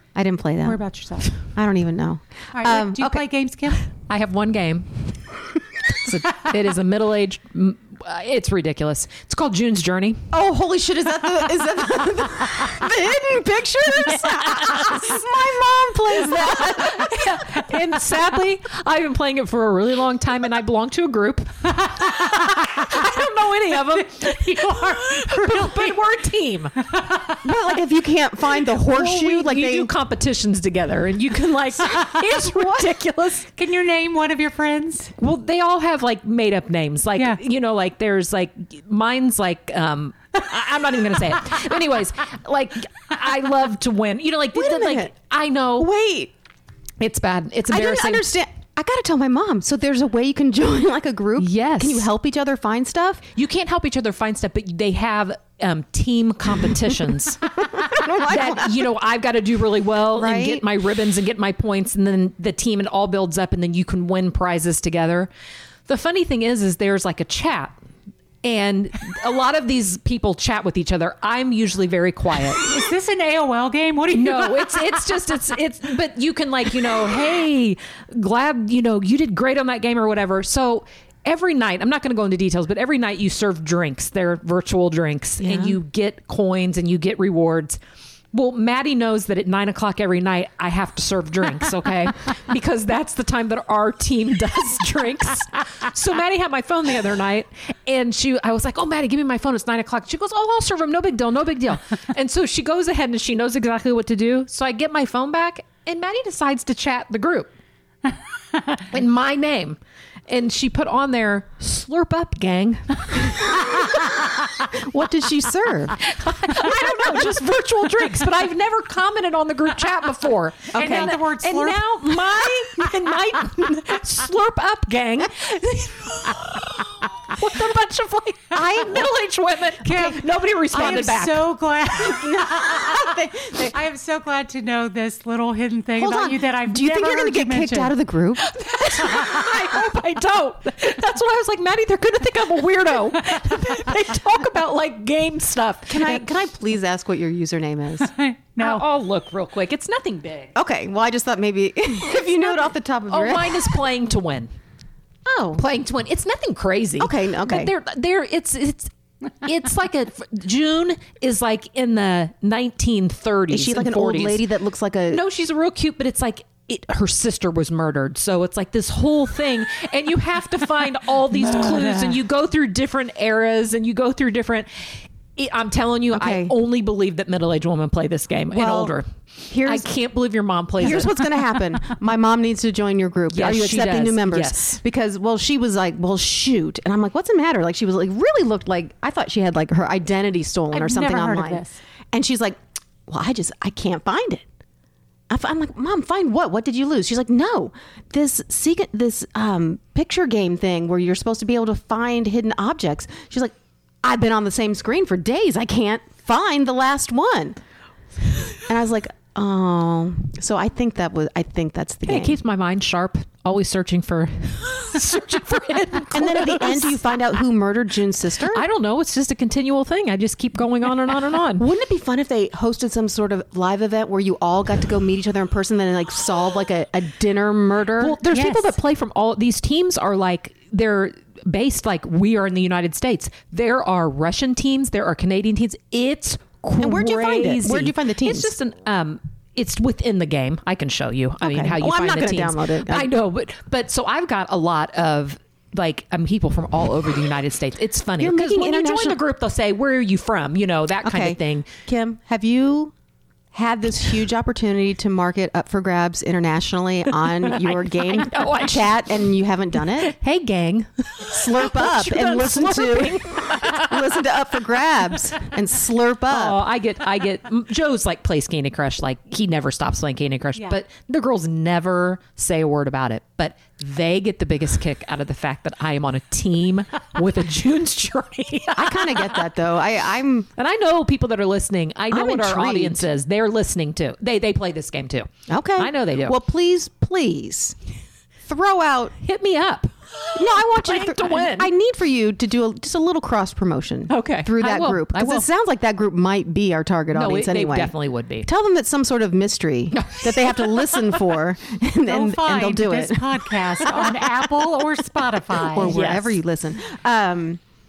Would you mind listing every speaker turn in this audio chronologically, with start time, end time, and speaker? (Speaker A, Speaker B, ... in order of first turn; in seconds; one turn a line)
Speaker A: 0.1-0.8
Speaker B: 0.6-1.3
Speaker A: 1.5-3.2
Speaker B: 2.5-3.9
Speaker C: 4.1-10.2
Speaker A: 10.3-17.3
Speaker C: 14.5-14.9
Speaker C: 16.3-26.8
Speaker B: 22.2-22.8
Speaker B: 23.9-26.0
Speaker B: 26.8-27.4
Speaker A: 27.4-29.9
Speaker C: 28.7-33.5
Speaker A: 32.5-32.9
Speaker B: 33.5-35.1
Speaker C: 35.2-45.9
Speaker A: 44.5-45.1
Speaker A: 45.8-46.3
Speaker C: 47.0-48.3
Speaker A: 47.7-53.3
Speaker C: 51.4-52.1
Speaker C: 53.4-57.5
Speaker A: 57.6-58.9
Speaker C: 58.2-65.3
Speaker A: 60.1-60.6
Speaker C: 65.8-67.8
Speaker C: 68.4-72.7
Speaker B: 72.6-75.0
Speaker C: 74.1-87.8
Speaker A: 85.4-85.8
Speaker C: 88.3-107.5
Speaker C: 108.9-113.9
Speaker A: 114.7-116.0
Speaker C: 116.0-131.5
Speaker A: 120.7-121.2
Speaker B: 120.7-121.8
Speaker A: 128.6-129.1
Speaker B: 129.8-133.1
Speaker A: 130.7-131.1
Speaker A: 131.9-133.7
Speaker B: 133.7-137.9
Speaker A: 136.0-138.5
Speaker C: 138.4-146.3
Speaker A: 145.9-148.1
Speaker B: 148.0-148.8
Speaker C: 148.6-150.5
Speaker A: 150.5-153.8
Speaker C: 152.3-154.5
Speaker A: 155.2-155.6
Speaker C: 155.6-158.9
Speaker A: 157.0-157.7
Speaker C: 159.4-164.4
Speaker A: 163.5-165.2
Speaker C: 165.1-179.1
Speaker A: 176.1-176.5
Speaker A: 178.5-178.9
Speaker A: 179.5-179.9
Speaker C: 179.6-181.2
Speaker A: 180.8-194.4
Speaker C: 183.3-184.8
Speaker B: 190.7-191.8
Speaker A: 195.3-207.6
Speaker A: 208.6-212.4
Speaker C: 212.1-217.0
Speaker A: 216.1-218.6
Speaker C: 218.5-221.6
Speaker A: 221.6-228.2
Speaker C: 228.0-251.7
Speaker B: 228.3-228.7
Speaker A: 236.8-238.5
Speaker A: 241.4-243.1
Speaker A: 248.2-249.2
Speaker A: 251.0-252.9
Speaker A: 253.5-260.1
Speaker C: 257.4-259.1
Speaker C: 260.0-264.2
Speaker A: 261.3-266.6
Speaker C: 266.3-279.4
Speaker A: 278.7-280.5
Speaker C: 280.6-286.3
Speaker A: 282.1-283.1
Speaker A: 285.5-287.7
Speaker A: 288.4-289.1
Speaker C: 289.2-291.7
Speaker A: 290.4-304.1
Speaker C: 294.1-295.5
Speaker C: 297.1-298.5
Speaker C: 299.9-301.2
Speaker B: 302.0-305.9
Speaker A: 305.6-307.6
Speaker C: 305.8-306.4